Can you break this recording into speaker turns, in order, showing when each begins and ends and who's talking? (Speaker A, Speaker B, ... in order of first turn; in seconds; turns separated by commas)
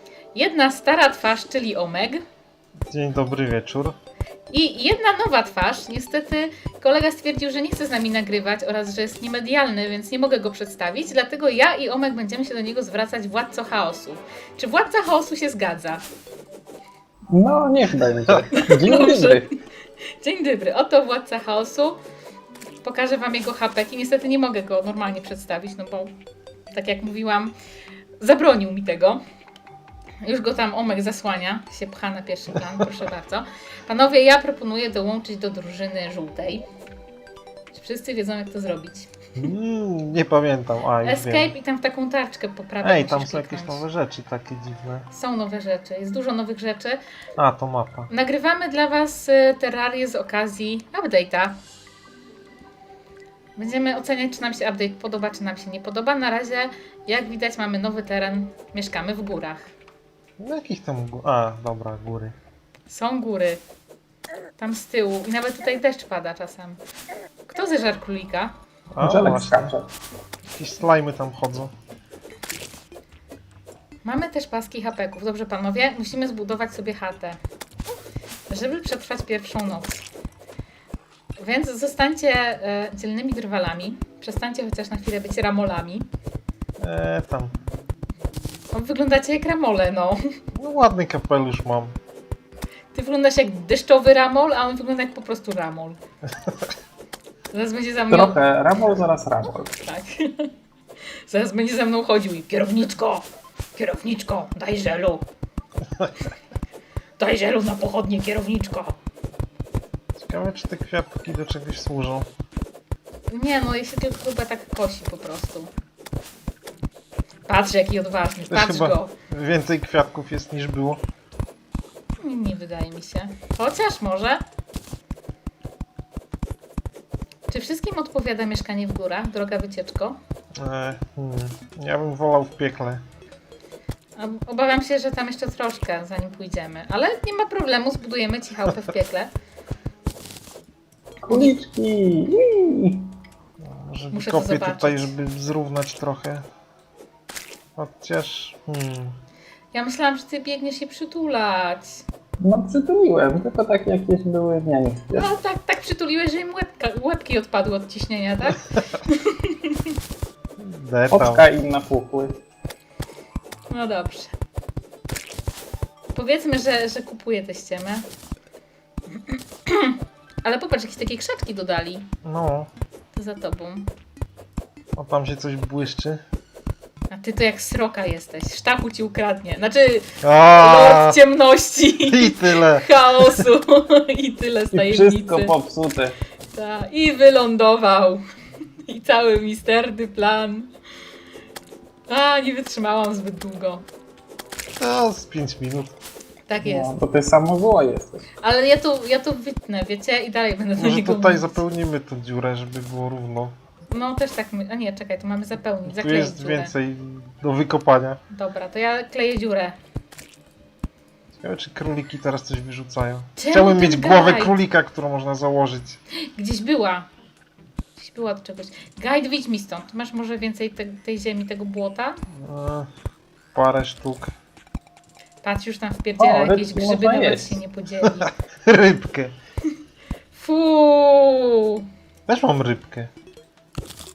Speaker A: 0.3-2.2, Speaker B: 2.9-4.0, Speaker A: 4.5-16.0, Speaker C: 17.3-19.5, Speaker A: 18.5-19.5, Speaker A: 20.2-22.0, Speaker A: 22.8-26.1, Speaker A: 26.7-27.5, Speaker A: 28.2-29.2, Speaker A: 30.2-36.7, Speaker A: 37.7-39.1, Speaker B: 39.4-41.5, Speaker A: 41.0-43.8, Speaker B: 42.8-45.1, Speaker A: 45.1-47.0, Speaker B: 47.4-48.1, Speaker A: 48.1-51.6, Speaker A: 53.5-59.7, Speaker B: 60.4-62.4, Speaker A: 62.9-63.6, Speaker A: 64.6-66.8, Speaker A: 67.5-68.5, Speaker B: 68.9-69.8, Speaker C: 69.0-69.9, Speaker B: 70.5-71.7, Speaker A: 74.0-77.4, Speaker A: 78.5-80.0, Speaker A: 81.4-86.1, Speaker B: 86.8-87.5, Speaker A: 88.7-90.2, Speaker B: 90.5-91.9, Speaker A: 92.9-96.0, Speaker A: 97.5-98.4, Speaker C: 98.1-99.8, Speaker A: 99.8-100.5, Speaker A: 101.3-105.2, Speaker A: 107.2-109.0, Speaker B: 110.2-112.3, Speaker A: 113.3-115.7, Speaker A: 117.5-119.1, Speaker B: 118.5-121.0, Speaker A: 122.2-124.4, Speaker A: 127.5-130.2, Speaker B: 130.6-133.0, Speaker A: 134.2-139.3, Speaker C: 141.2-143.1, Speaker B: 143.6-146.4, Speaker A: 144.1-145.1, Speaker B: 147.8-149.2, Speaker A: 149.7-152.0, Speaker C: 152.4-155.3, Speaker A: 155.1-159.9, Speaker B: 160.6-161.4, Speaker C: 161.1-162.4, Speaker A: 163.7-164.3, Speaker A: 166.1-168.1, Speaker A: 169.1-172.1, Speaker B: 172.2-172.7, Speaker A: 173.1-173.9, Speaker B: 174.9-176.2, Speaker A: 177.1-185.5, Speaker B: 180.2-181.2, Speaker B: 182.0-183.4, Speaker C: 184.7-186.2, Speaker A: 186.5-188.2, Speaker A: 188.8-190.7, Speaker A: 192.1-193.8, Speaker B: 194.8-195.9, Speaker A: 196.5-196.9, Speaker C: 196.6-198.3, Speaker A: 198.4-201.6, Speaker B: 200.8-203.5, Speaker A: 203.9-206.7, Speaker B: 205.9-208.2, Speaker A: 208.3-209.8, Speaker B: 211.4-216.0, Speaker A: 213.4-214.5, Speaker A: 216.2-217.1, Speaker A: 217.9-222.2, Speaker B: 222.3-222.9, Speaker B: 223.5-224.3, Speaker A: 225.4-228.3, Speaker C: 226.2-227.6, Speaker B: 228.6-229.3, Speaker A: 230.3-231.8, Speaker B: 232.3-233.1